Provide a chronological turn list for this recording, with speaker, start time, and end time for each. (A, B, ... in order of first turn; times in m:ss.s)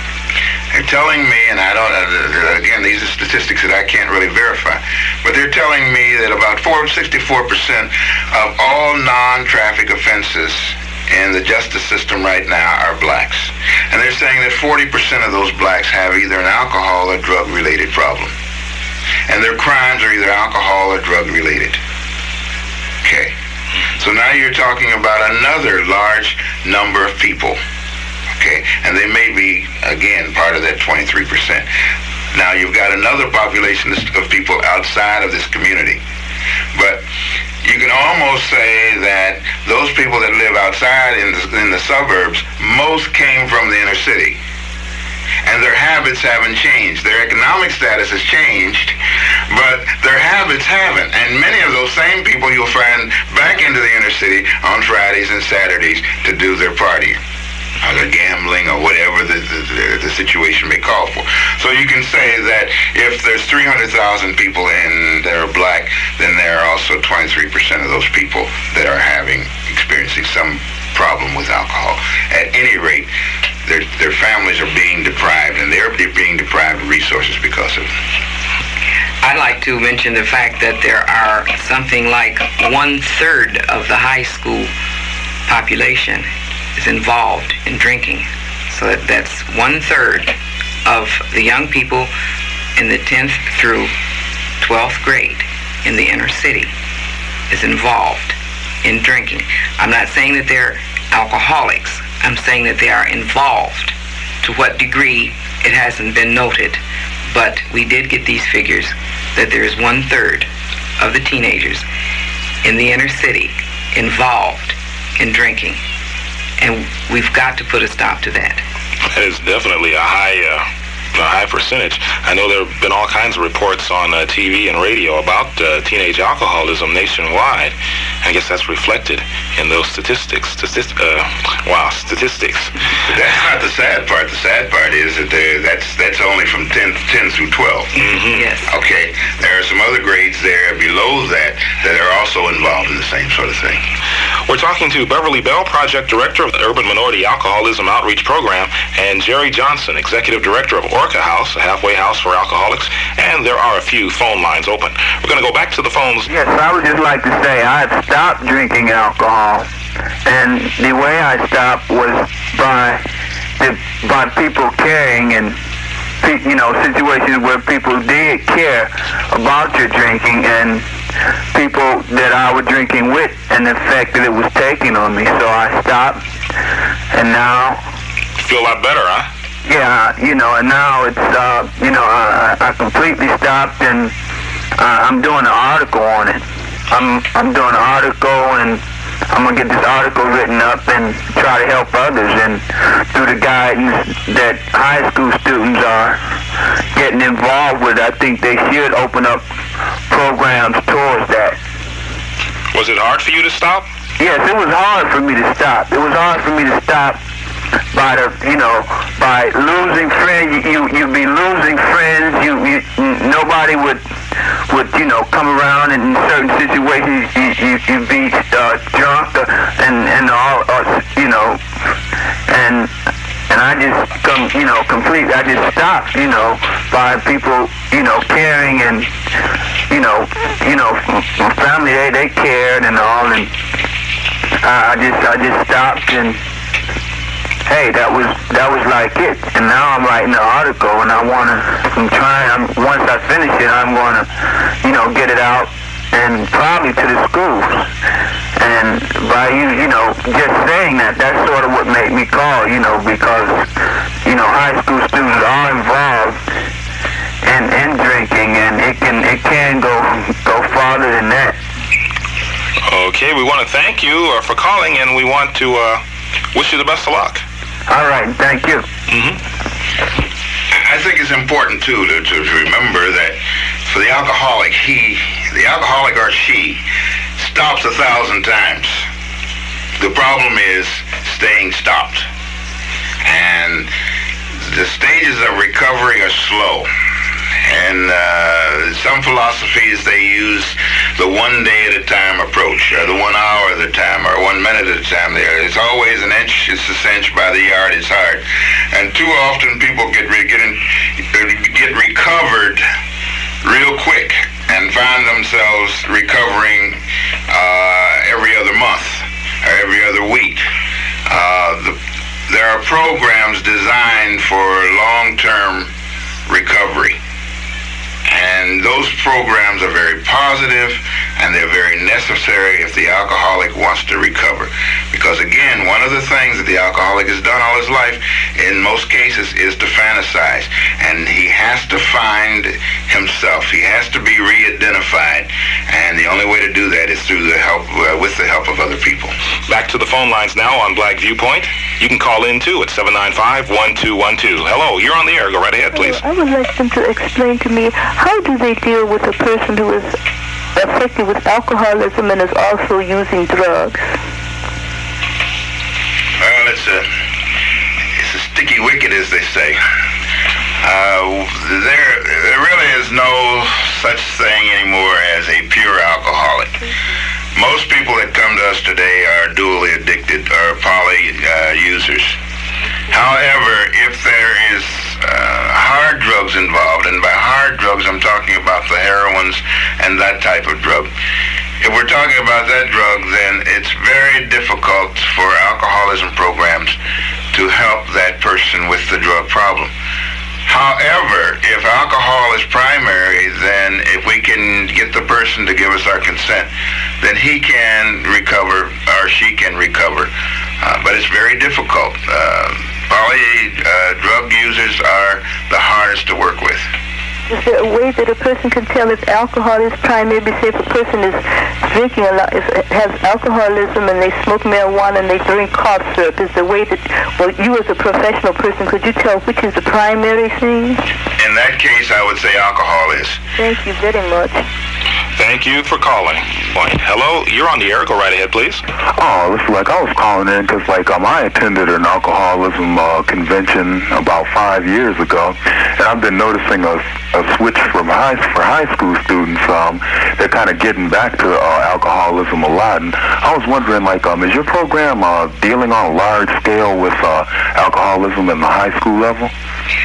0:00.7-0:18.3 A
0:19.3-0:21.8 A
0:23.0-0:23.3 A
0:23.9-0:27.6 A
0:28.4-0:31.7 A
0:32.3-0:36.0 A
0:36.7-0:37.0 A
0:37.6-0:44.4 A
0:45.4-0:49.0 A
0:49.5-0:57.2 A
0:57.8-1:13.1 A
1:13.6-1:17.9 A
1:19.2-1:24.7 B
1:25.5-1:30.3 B
1:30.8-1:32.1 B
1:32.8-1:33.9 B
1:34.6-1:36.7 B
1:37.5-1:50.5 B
1:51.0-1:51.8 B
1:52.6-1:55.8 B
1:56.6-1:58.6 B
1:59.1-2:12.8 C
2:13.0-2:17.9 A
2:18.0-2:18.5 C
2:18.3-2:18.7 B
2:18.7-2:23.8 A
2:24.5-2:36.3 C
2:36.3-2:39.7 D
2:40.2-2:43.0 D
2:43.6-2:45.6 D
2:46.2-2:50.8 D
2:51.5-2:56.2 D
2:57.1-2:57.8 D
2:58.4-2:59.3 C
2:59.7-3:04.1 D
3:04.8-3:16.2 D
3:16.9-3:19.5 D
3:20.1-3:21.6 D
3:22.7-3:23.8 C
3:24.2-3:27.2 D
3:27.9-3:34.0 D
3:34.7-3:41.6 D
3:42.5-3:42.9 D
3:43.5-3:49.1 D
3:49.9-3:53.5 D
3:54.6-3:56.4 D
3:57.6-4:07.9 D
4:08.6-4:13.7 D
4:14.2-4:16.4 D
4:17.4-4:21.6 D
4:22.8-4:26.0 C
4:26.5-4:27.4 C
4:27.9-4:28.8 D
4:29.1-4:29.4 C
4:30.7-4:36.8 A
4:37.4-4:39.0 A
4:40.0-4:42.3 A
4:43.2-4:43.9 A
4:44.6-4:46.9 A
4:47.6-5:02.8 A
5:03.6-5:10.6 A
5:11.3-5:12.0 A
5:12.5-5:15.9 A
5:16.5-5:17.2 A
5:18.2-5:39.3 A
5:39.7-5:46.2 C
5:45.9-5:50.2 E
5:50.7-5:54.1 E
5:56.4-5:57.1 A
5:58.2-5:59.8 A
6:00.8-6:06.7 A
6:07.5-6:12.4 A
6:13.1-6:21.1 A
6:21.8-6:27.0 A
6:27.5-6:29.9 A
6:30.6-6:36.7 A
6:37.2-6:46.9 A
6:47.5-7:01.0 E
7:01.4-7:03.4 A
7:03.6-7:04.6 E
7:05.4-7:08.8 C
7:09.1-7:29.5 F